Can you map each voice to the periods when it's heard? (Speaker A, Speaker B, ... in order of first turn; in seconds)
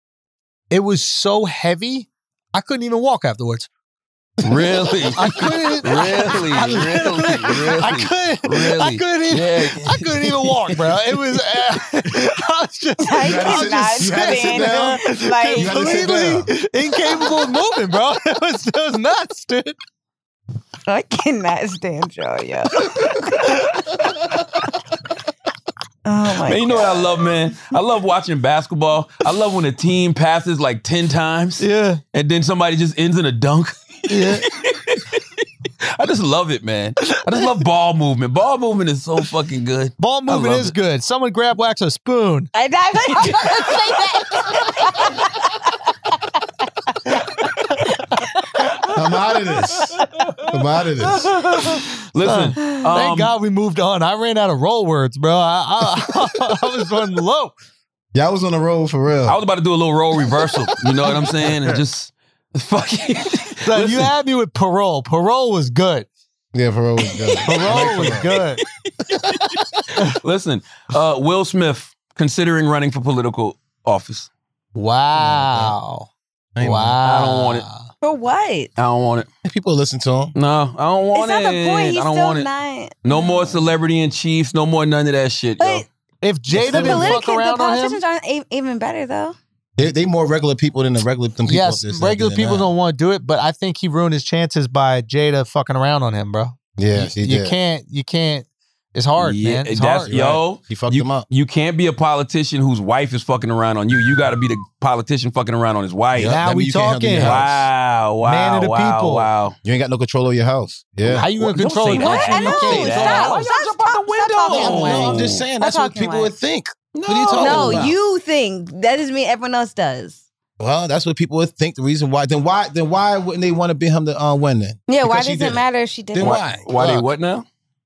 Speaker A: 0.7-3.7, 5.1-19.8, 31.6-32.0, 34.1-34.5, 37.1-37.5, 40.0-42.5, 51.6-57.5, 63.6-66.1, 67.5-68.6, 74.7-76.1, 76.6-77.8, 86.2-88.0, 91.5-100.1, 106.2-107.4, 108.2-109.3, 111.1-113.4
Speaker B: 4.4-11.2, 26.3-35.4, 35.9-40.7, 43.1-43.8, 52.1-53.3, 59.3-64.1, 67.2-74.3, 77.0-77.6, 78.8-79.3, 80.3-82.5, 83.0-85.8, 99.2-106.4, 107.2-109.5, 111.1-115.5, 116.9-117.9, 126.2-127.4
Speaker C: 13.0-15.8, 20.9-24.0, 26.0-27.3, 42.5-46.2, 47.1-48.9, 78.0-78.7, 81.1-83.6, 85.6-85.8, 86.6-89.3, 111.9-116.3, 117.3-120.2, 124.9-126.4
Speaker D: 13.2-16.5, 48.9-51.3, 58.1-59.4, 66.5-68.3, 75.1-75.7, 76.5-77.0, 79.4-80.3, 86.5-87.2, 89.8-92.7, 96.8-97.5, 100.1-101.2, 106.1-107.7, 109.6-111.3, 114.5-118.0, 120.6-125.6, 126.1-127.0